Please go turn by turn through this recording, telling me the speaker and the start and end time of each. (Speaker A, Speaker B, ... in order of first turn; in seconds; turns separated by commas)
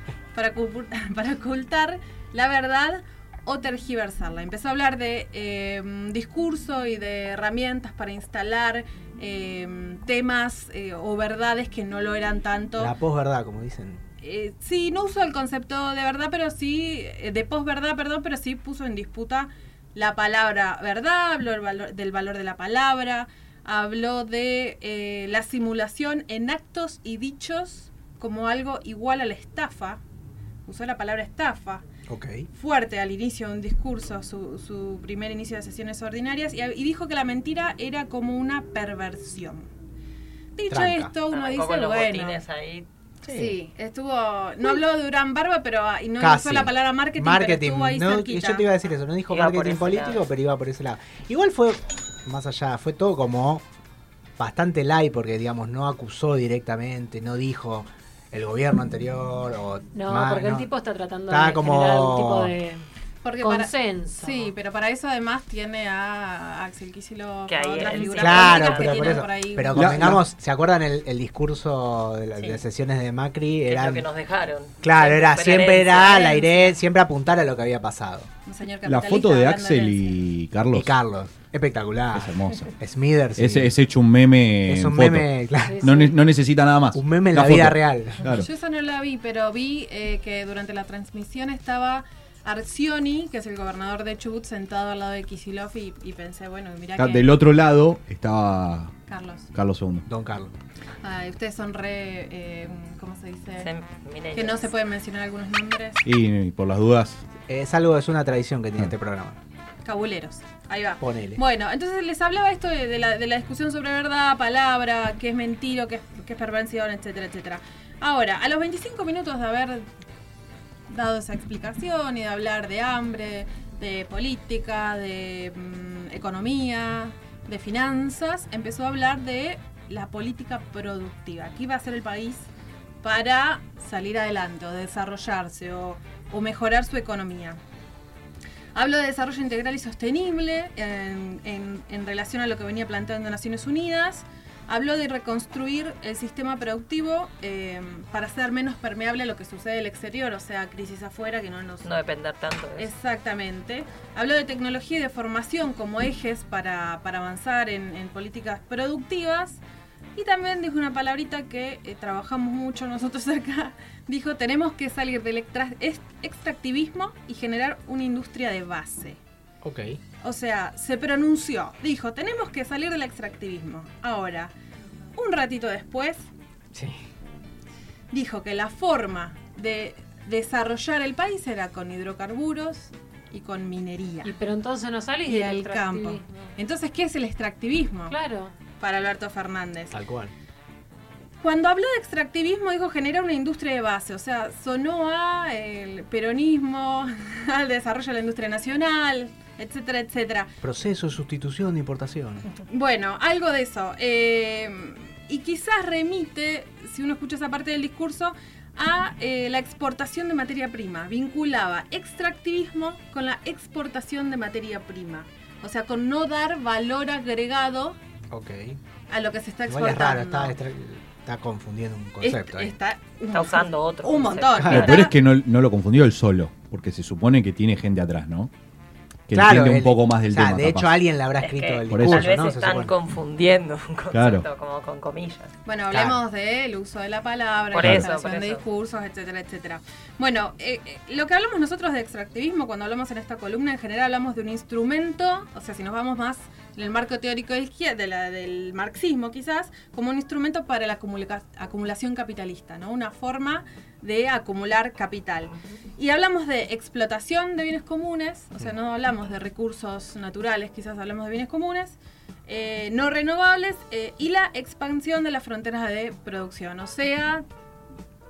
Speaker A: 0.3-12.9, Speaker B: 12.8-14.0, Speaker A: 14.2-30.0, Speaker A: 30.6-31.8, Speaker B: 32.1-32.5, Speaker A: 32.5-39.7, Speaker A: 40.5-42.4, Speaker B: 40.7-41.1, Speaker C: 41.3-42.9, Speaker A: 43.2-48.7, Speaker B: 43.2-43.5, Speaker B: 46.2-53.6, Speaker C: 49.3-50.3, Speaker B: 54.4-60.7, Speaker D: 59.9-62.9, Speaker B: 61.3-62.5, Speaker A: 63.2-70.1, Speaker D: 63.4-64.5, Speaker C: 67.5-68.8, Speaker B: 68.1-74.0, Speaker E: 69.7-70.2, Speaker C: 72.3-72.6, Speaker C: 73.6-76.2, Speaker B: 74.8-78.3, Speaker A: 76.1-76.7, Speaker A: 78.5-80.1, Speaker E: 78.8-80.9, Speaker B: 80.7-83.7, Speaker E: 82.1-82.7, Speaker E: 83.4-88.5, Speaker B: 84.7-85.9, Speaker D: 85.6-86.1, Speaker B: 86.9-88.3, Speaker A: 88.4-97.3, Speaker E: 97.0-98.9, Speaker A: 99.1-99.5, Speaker E: 99.5-100.0, Speaker B: 100.0-100.5, Speaker A: 101.0-103.7, Speaker C: 103.6-104.7, Speaker A: 104.3-106.0, Speaker E: 106.0-107.2, Speaker B: 107.5-109.4, Speaker A: 109.8-119.9, Speaker B: 111.0-111.4, Speaker A: 120.9-132.5, Speaker A: 133.0-137.6, Speaker A: 138.7-151.9, Speaker C: 151.8-152.9, Speaker A: 152.8-159.6, Speaker A: 160.1-169.2, Speaker B: 169.6-170.0, Speaker A: 170.2-174.5, Speaker A: 175.1-176.2, Speaker B: 176.7-177.0, Speaker A: 178.1-184.3, Speaker D: 184.2-186.2, Speaker A: 185.3-188.1, Speaker D: 188.1-188.5, Speaker A: 188.7-189.9, Speaker B: 189.9-190.3, Speaker A: 191.4-200.5, Speaker B: 200.6-202.5, Speaker A: 202.7-218.0, Speaker B: 218.3-218.8, Speaker A: 219.1-220.6, Speaker B: 219.7-222.7, Speaker A: 222.2-225.2, Speaker C: 223.3-225.1, Speaker B: 224.6-224.9, Speaker E: 224.6-228.5, Speaker E: 229.3-231.0, Speaker B: 229.3-232.9, Speaker C: 231.4-235.5, Speaker E: 231.9-232.4, Speaker E: 234.1-234.5, Speaker A: 235.6-267.4, Speaker B: 235.9-236.2, Speaker C: 237.7-238.7, Speaker E: 237.8-238.1, Speaker C: 255.5-255.8